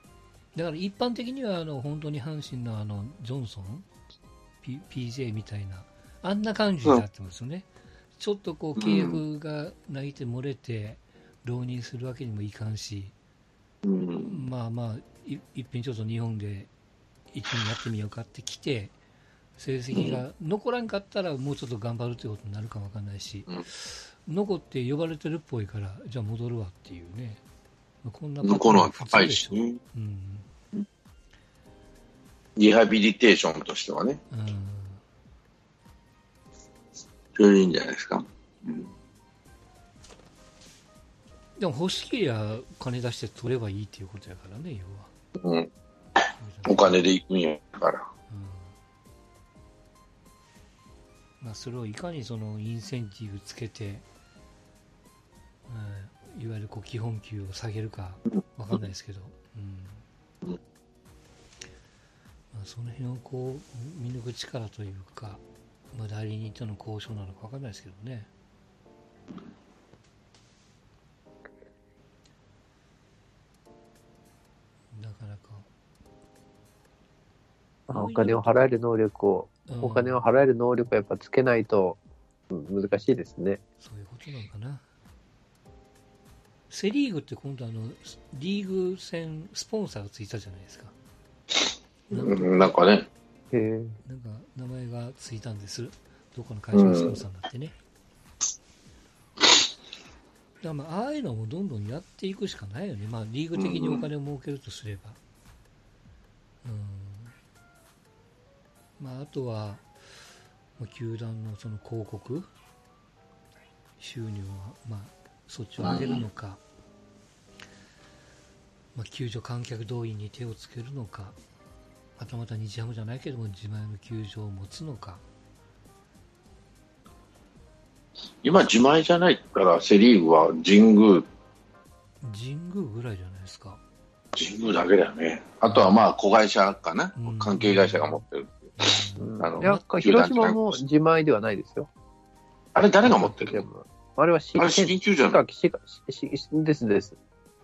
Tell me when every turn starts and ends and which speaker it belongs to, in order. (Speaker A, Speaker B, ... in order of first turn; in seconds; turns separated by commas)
Speaker A: 0.5-3.9, Speaker A: 4.6-13.2, Speaker B: 8.8-9.2, Speaker B: 13.8-14.4, Speaker A: 14.2-16.7, Speaker A: 17.3-18.9, Speaker A: 19.6-27.4, Speaker B: 19.9-20.2, Speaker A: 28.0-30.5, Speaker B: 28.4-29.8, Speaker B: 32.6-34.2, Speaker A: 34.3-35.0, Speaker B: 37.4-38.9, Speaker A: 41.6-45.1, Speaker B: 45.4-45.7, Speaker A: 46.4-47.1, Speaker B: 46.7-48.1, Speaker A: 48.3-48.8, Speaker A: 51.4-54.1, Speaker A: 55.7-60.0, Speaker A: 62.5-68.3, Speaker A: 74.9-75.7, Speaker C: 77.9-82.0, Speaker A: 77.9-78.8, Speaker A: 79.7-80.3, Speaker C: 82.5-83.6, Speaker A: 83.8-84.8, Speaker A: 86.7-91.0, Speaker A: 92.1-92.8, Speaker B: 92.1-93.1, Speaker C: 93.5-94.0, Speaker A: 94.0-97.8, Speaker B: 96.7-97.2, Speaker A: 100.6-105.2, Speaker B: 103.5-104.0, Speaker A: 106.6-107.3, Speaker A: 109.0-109.9, Speaker A: 110.8-112.5, Speaker A: 114.0-116.6, Speaker B: 115.8-116.2, Speaker A: 118.9-121.4, Speaker A: 122.2-125.2, Speaker B: 128.4-131.3, Speaker A: 132.2-133.8, Speaker B: 134.3-138.7, Speaker A: 135.7-136.0, Speaker A: 137.2-138.2, Speaker A: 138.8-139.8, Speaker C: 139.2-141.9, Speaker B: 139.4-140.8, Speaker B: 142.8-143.7, Speaker C: 143.0-147.2, Speaker B: 144.6-145.4